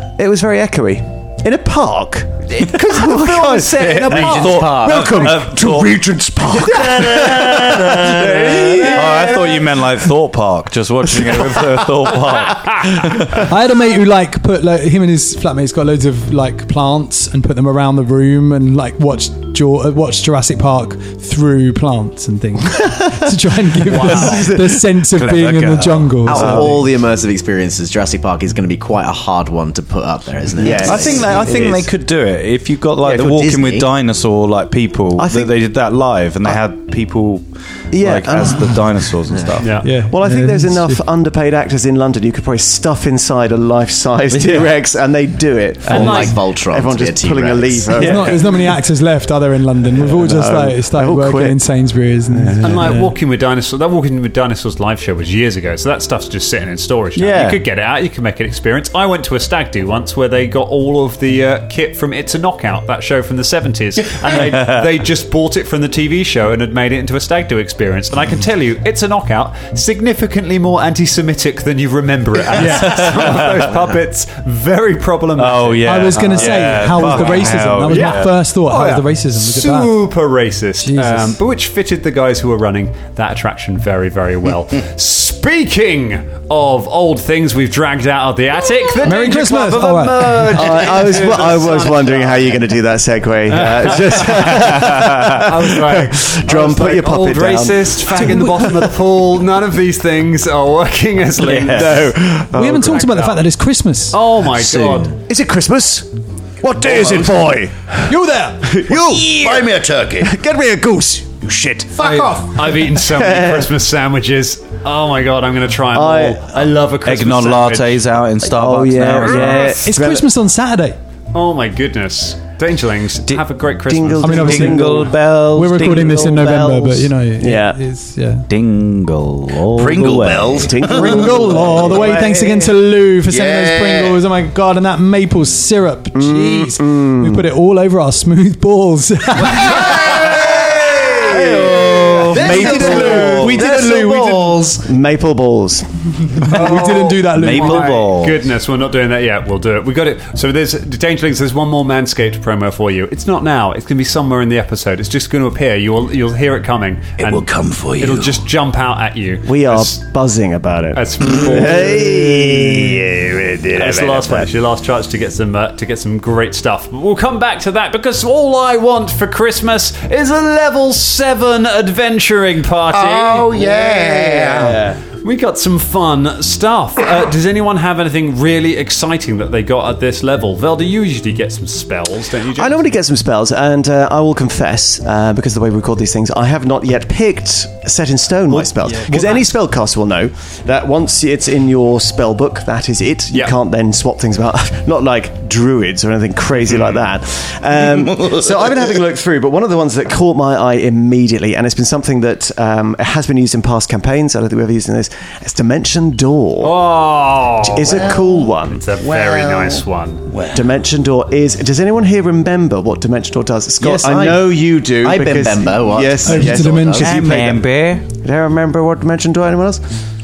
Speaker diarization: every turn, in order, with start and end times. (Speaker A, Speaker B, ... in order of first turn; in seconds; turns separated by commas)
Speaker A: 0.2-9.7, Speaker B: 3.1-5.4, Speaker C: 3.8-13.5, Speaker D: 4.0-4.6, Speaker E: 13.4-26.7, Speaker D: 23.9-24.5, Speaker A: 23.9-24.8, Speaker C: 25.1-26.8, Speaker B: 26.2-31.8, Speaker A: 26.3-26.7, Speaker A: 30.6-31.9, Speaker C: 30.8-39.8, Speaker B: 33.0-33.9, Speaker A: 35.2-35.5, Speaker A: 37.9-38.9, Speaker D: 39.6-39.9, Speaker E: 39.8-41.0, Speaker A: 40.1-48.8, Speaker B: 44.3-44.6, Speaker B: 45.9-48.3, Speaker D: 45.9-46.4, Speaker E: 48.0-53.1, Speaker A: 50.0-51.6, Speaker A: 52.3-53.0, Speaker D: 52.6-92.6, Speaker C: 57.2-57.6, Speaker C: 64.3-64.9, Speaker E: 72.5-73.0, Speaker C: 72.7-73.7, Speaker C: 75.4-78.4, Speaker E: 75.8-80.0, Speaker E: 80.8-81.4, Speaker E: 89.0-90.6, Speaker A: 90.5-98.8, Speaker D: 93.5-94.6, Speaker C: 94.2-95.6, Speaker D: 95.4-102.2, Speaker E: 98.1-98.7, Speaker C: 101.4-102.1, Speaker A: 101.6-103.0, Speaker E: 102.5-104.2, Speaker D: 102.8-103.4, Speaker D: 104.1-105.2, Speaker B: 104.5-105.2, Speaker A: 105.3-106.1, Speaker A: 106.6-108.0, Speaker F: 106.8-107.4, Speaker E: 108.0-108.8, Speaker A: 108.6-109.7, Speaker F: 109.2-110.3, Speaker A: 110.2-113.7, Speaker D: 112.0-118.0, Speaker E: 112.0-112.4, Speaker A: 115.9-116.7, Speaker C: 117.0-119.8, Speaker A: 118.4-120.3, Speaker E: 119.5-121.0, Speaker D: 121.3-124.6, Speaker A: 123.9-125.2, Speaker E: 124.2-125.0, Speaker C: 124.3-127.1, Speaker E: 125.5-128.5, Speaker A: 127.4-127.8, Speaker C: 128.5-132.7, Speaker F: 129.7-131.4, Speaker A: 130.6-132.4, Speaker E: 130.9-140.0, Speaker F: 133.3-134.2, Speaker A: 136.2-137.5, Speaker A: 139.7-140.4, Speaker A: 141.0-146.4, Speaker C: 141.1-143.6, Speaker B: 142.3-144.8, Speaker E: 142.5-143.6, Speaker E: 146.4-148.1, Speaker D: 146.5-160.0, Speaker C: 146.6-148.4, Speaker F: 157.2-158.4, Speaker A: 159.5-163.2, Speaker D: 160.9-163.0, Speaker F: 163.4-163.8, Speaker D: 163.7-182.9, Speaker A: 164.1-164.4, Speaker F: 172.9-174.8, Speaker A: 182.6-206.8, Speaker D: 188.5-189.4, Speaker D: 196.7-197.0, Speaker F: 198.2-198.5, Speaker D: 206.6-210.3, Speaker A: 207.6-208.8, Speaker F: 207.9-208.4, Speaker F: 209.0-210.7, Speaker A: 210.5-219.8, Speaker B: 213.8-217.5, Speaker E: 216.2-217.2, Speaker C: 217.0-218.1